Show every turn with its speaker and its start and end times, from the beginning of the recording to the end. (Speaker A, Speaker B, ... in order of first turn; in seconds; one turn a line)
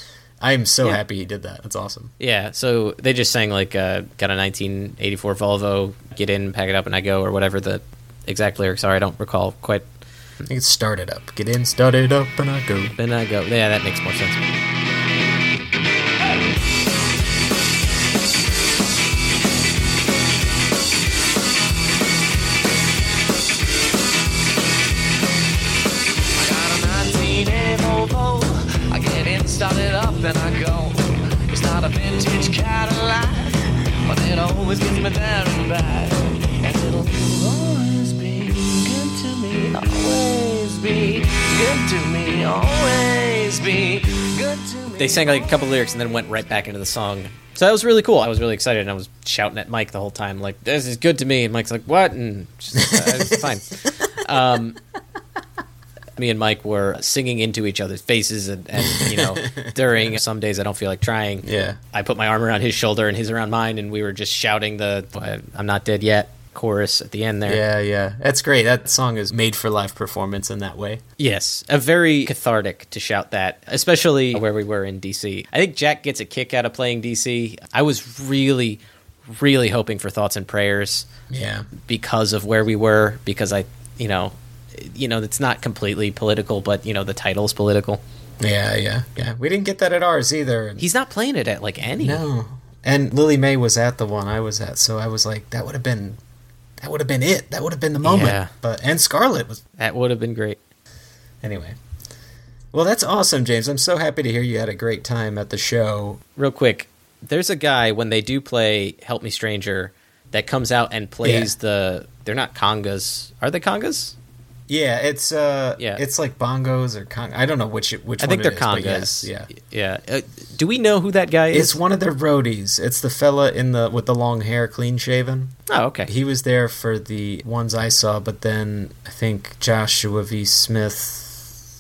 Speaker A: 0.4-2.1
Speaker B: 2.2-9.8
Speaker A: 10.4-13.0
Speaker B: 13.0-14.4
Speaker C: 26.4-33.5
Speaker C: 34.1-45.6
Speaker B: 45.0-54.8
Speaker A: 52.8-53.4
Speaker B: 56.2-67.6
Speaker A: 58.8-60.2
Speaker A: 61.4-61.8
Speaker A: 67.5-71.0
Speaker B: 71.2-81.1
Speaker A: 81.3-81.7
Speaker B: 81.8-88.0
Speaker A: 88.4-90.8
Speaker B: 90.8-92.2
Speaker A: 92.0-96.2
Speaker A: 96.8-99.6
Speaker B: 98.0-98.5
Speaker B: 99.8-100.6
Speaker A: 101.4-101.8
Speaker A: 102.7-106.2
Speaker B: 106.4-114.2
Speaker A: 111.2-111.5
Speaker A: 114.7-119.5
Speaker B: 118.2-121.8
Speaker A: 121.5-131.5
Speaker B: 125.7-126.1